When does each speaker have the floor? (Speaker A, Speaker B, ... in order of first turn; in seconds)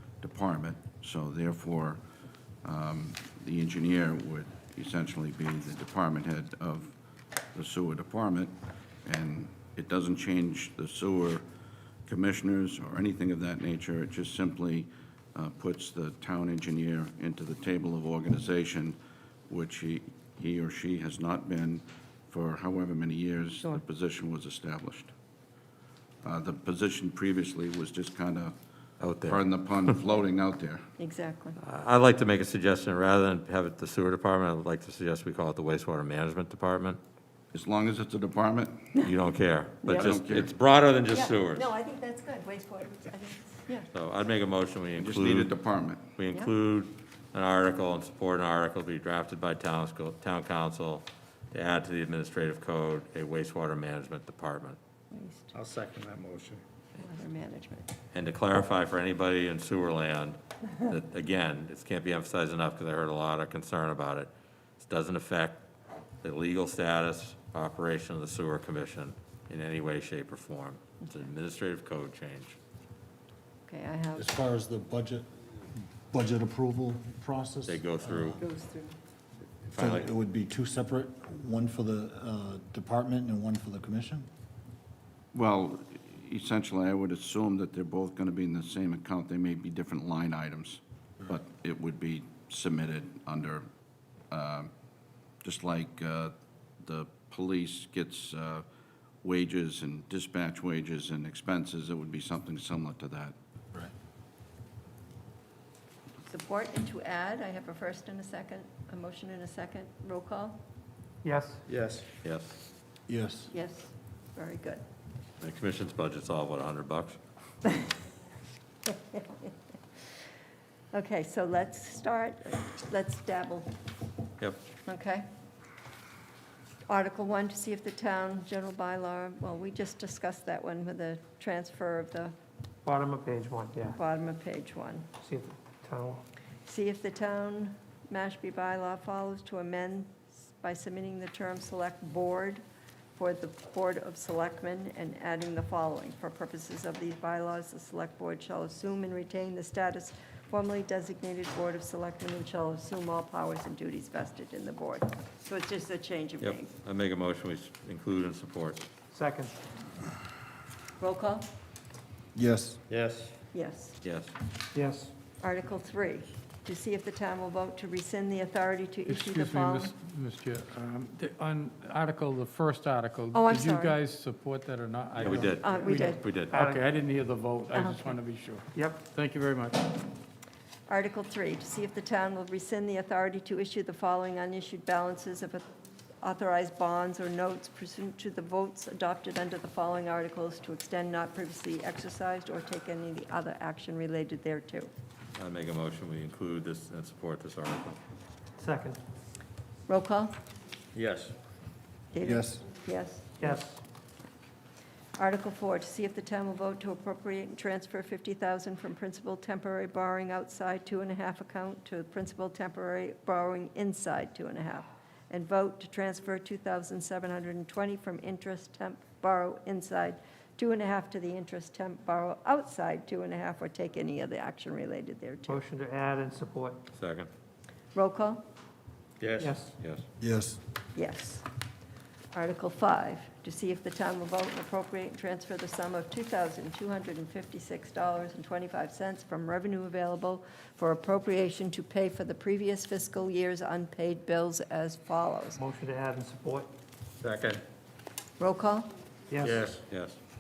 Speaker A: 0.2-2.0, 2.6-7.0, 7.5-11.5, 12.1-19.0, 19.5-25.1, 26.2-28.6, 29.2-30.9, 37.5-38.9, 39.9-40.5, 45.0-46.1, 85.3-93.7, 94.3-94.7, 95.4-98.7, 99.2-103.3
Speaker B: 29.0-29.4, 31.6-37.0, 39.0-41.7, 43.9-45.5, 46.2-54.8, 58.1-65.6, 66.2-72.6, 77.7-78.4, 79.7-80.1, 112.2-112.6, 115.4-117.2, 156.4-158.8, 164.0-164.3, 175.2-176.6, 195.4-198.0, 226.9-227.3, 229.8-230.1, 249.9-250.2
Speaker C: 31.0-31.6, 39.8-40.2, 41.1-43.9, 55.1-55.5, 57.0-57.9, 73.7-74.3, 78.4-79.0, 106.3-110.6, 113.5-114.8, 118.9-119.5, 120.9-123.8, 124.8-125.2, 126.9-132.3, 134.0-135.1, 136.7-142.6, 143.2-156.7, 161.0-161.5, 163.5-164.0, 165.4-169.9, 173.3-174.0, 175.5-176.4, 177.7-178.2, 180.9-185.7, 186.2-194.9, 199.9-200.4, 202.1-203.6, 205.2-225.6, 227.9-228.4, 230.9-231.5, 232.3-245.6, 248.4-248.9
Speaker D: 55.5-56.6, 111.7-112.0, 162.9-163.3, 200.9-201.3, 229.2-229.5, 247.2-247.6, 249.4-249.8
Speaker E: 74.2-78.4, 79.7-84.3, 113.1-113.5, 162.3-162.8, 202.2-202.7, 230.2-230.6
Speaker F: 111.2-111.6, 132.8-134.0, 135.2-136.2, 159.1-159.6, 164.7-165.1, 175.7-176.9, 178.7-179.1, 198.6-199.0, 203.4-203.8, 225.5-226.8, 229.4-229.7, 245.6-246.7, 249.3-249.6
Speaker G: 169.1-179.8